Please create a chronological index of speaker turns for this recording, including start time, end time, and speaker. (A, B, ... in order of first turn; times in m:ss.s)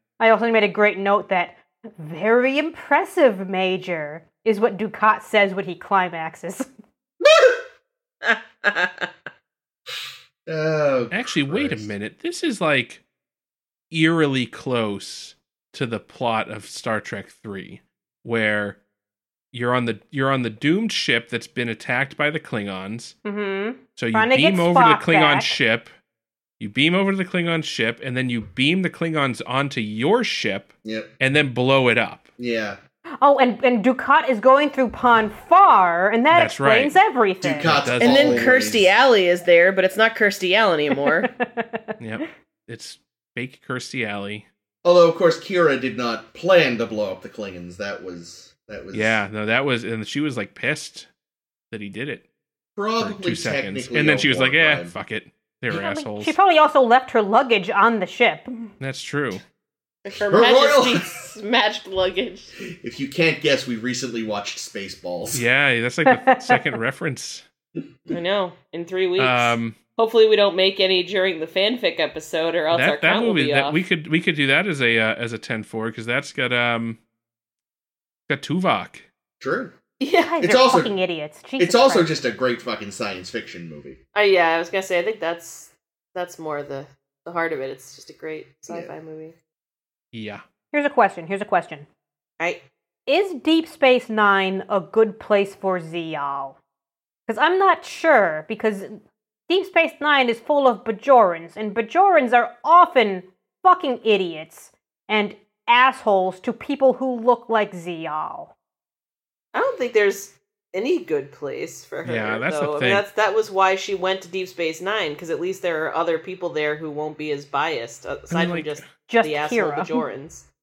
0:00.2-0:06.7 A
0:07.2-0:07.6 B
0:08.2-0:09.1 C
0:10.5-0:11.9 B
0:11.1-0:13.0 D
0:13.9-0:18.8 D
0:19.5-0:23.2 D
0:23.2-0:25.6 A
0:24.0-0:25.9 D
0:26.6-0:32.3 D
0:30.8-0:31.1 B
0:32.4-0:32.8 B
0:33.2-0:37.8 A
0:36.3-0:37.0 D
0:37.4-0:38.9 B
0:37.6-0:38.6 D
0:38.0-0:41.3 C
0:41.2-0:41.9 A
0:42.0-0:44.5 D
0:44.8-0:49.2 B
0:48.9-0:51.1 D
0:51.7-0:52.2 D
0:52.8-0:54.9 B
0:53.0-0:56.4 D
0:55.7-0:58.7 A
0:58.8-0:59.4 D
1:00.0-1:02.5 C
1:00.3-1:01.2 B
1:02.6-1:05.4 B
1:05.3-1:07.4 D
1:06.1-1:06.6 A
1:08.1-1:13.8 C
1:09.2-1:09.8 D
1:12.7-1:17.0 D
1:18.3-1:19.1 D
1:19.4-1:19.7 B
1:20.0-1:20.4 C
1:20.3-1:22.1 A
1:20.4-1:20.9 B
1:21.6-1:24.0 B
1:24.1-1:29.4 C
1:30.1-1:30.4 D
1:30.7-1:31.9 A
1:33.1-1:36.6 A
1:37.3-1:48.5 A
1:49.5-2:00.5 C
1:52.0-1:53.0 D
1:58.3-1:58.9 D
1:59.1-2:00.0 A